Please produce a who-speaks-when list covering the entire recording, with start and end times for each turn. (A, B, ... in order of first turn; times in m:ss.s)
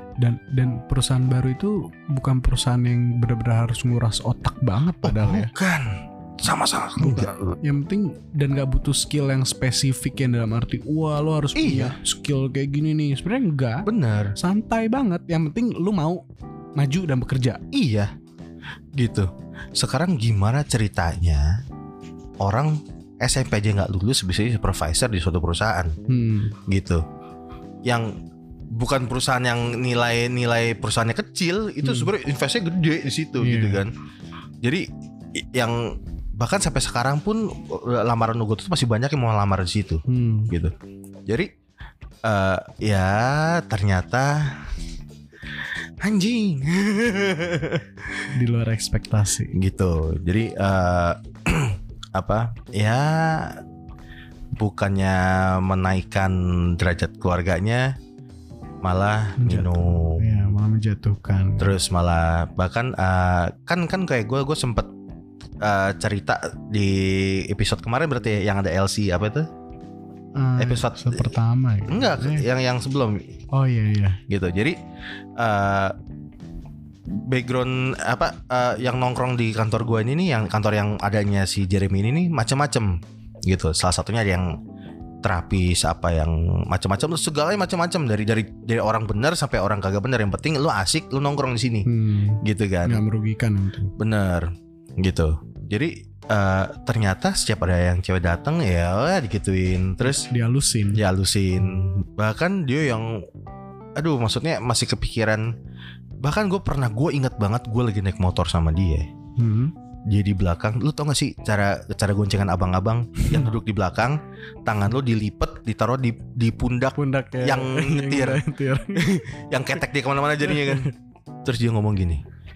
0:00.2-0:05.5 A
0:05.0-0:07.6 B
0:07.0-0:16.2 A
0:11.6-0:12.0 B
0:13.9-0:14.3 B
0:16.8-0:17.6 A
0:17.7-0:18.1 B
0:19.0-0:21.6 B
0:22.4-0:26.0 B
0:26.1-0:26.6 A
0:26.7-0:27.0 B
0:27.8-0:28.2 B
0:28.7-0:33.9 B
0:31.8-0:32.1 A
0:33.4-0:33.8 A
0:34.6-0:40.8 B
0:40.1-0:40.5 A
0:41.3-0:41.5 B
0:42.2-0:44.6 B
0:46.0-0:48.3 B
0:48.3-0:49.6 A
0:49.5-0:53.6 B
0:54.6-0:58.0 B
0:58.8-1:00.5 B
0:59.4-1:01.8 A
1:01.6-1:04.9 B
1:05.6-1:09.5 B
1:10.4-1:12.5 A
1:10.6-1:11.4 B
1:11.9-1:13.3 B
1:13.5-1:14.2 A
1:14.3-1:14.8 B
1:15.4-1:16.0 B
1:17.1-1:24.5 B
1:25.2-1:31.9 B
1:31.9-1:33.9 A
1:32.4-1:33.0 B
1:34.0-1:40.3 B
1:40.0-1:41.0 A
1:40.9-1:43.3 B
1:44.0-1:45.5 B
1:46.2-1:49.1 B
1:49.4-1:49.7 A
1:50.1-1:58.4 B
1:57.0-1:59.2 A
1:59.0-2:00.9 B
2:00.5-2:00.9 A
2:01.4-2:02.2 B